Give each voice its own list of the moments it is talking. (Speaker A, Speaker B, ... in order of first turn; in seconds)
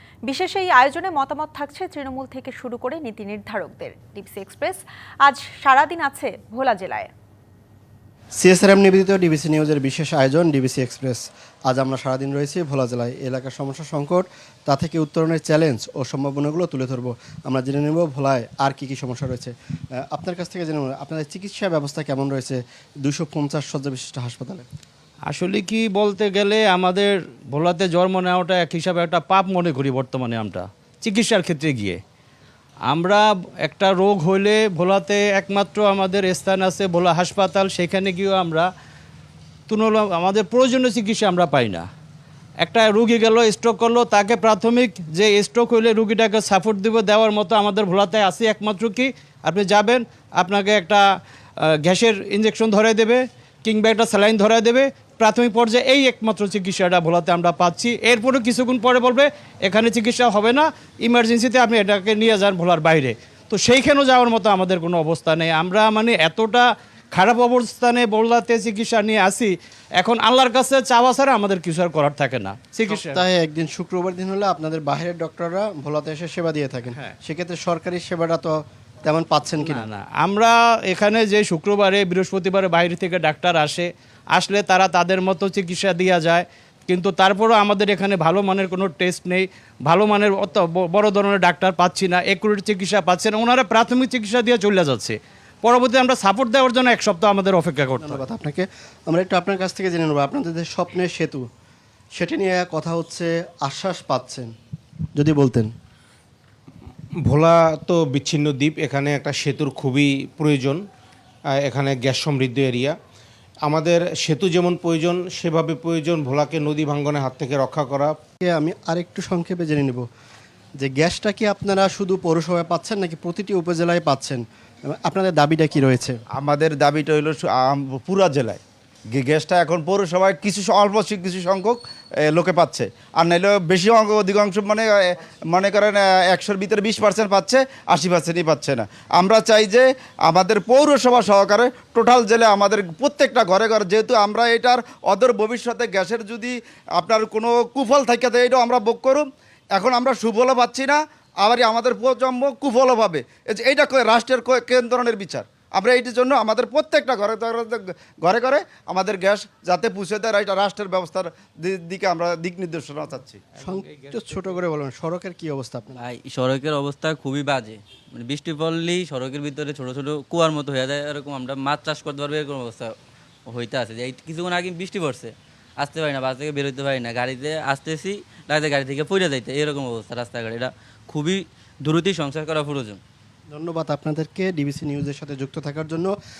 Speaker A: 0.3-7.1
Speaker B: 8.4-24.6, 72.9-79.9, 98.0-101.4, 102.2-104.5, 105.2-105.7, 118.4-120.0, 120.8-126.2, 163.6-166.0, 183.5-186.1
Speaker C: 25.3-32.0, 32.9-38.7, 39.7-41.9, 42.6-51.0, 51.6-73.2, 79.6-98.2, 163.7-164.6
Speaker D: 107.2-110.8, 111.6-113.0, 113.7-118.1
Speaker E: 126.4-128.6, 129.1-131.8, 132.3-163.4
Speaker F: 166.0-172.9, 173.5-183.0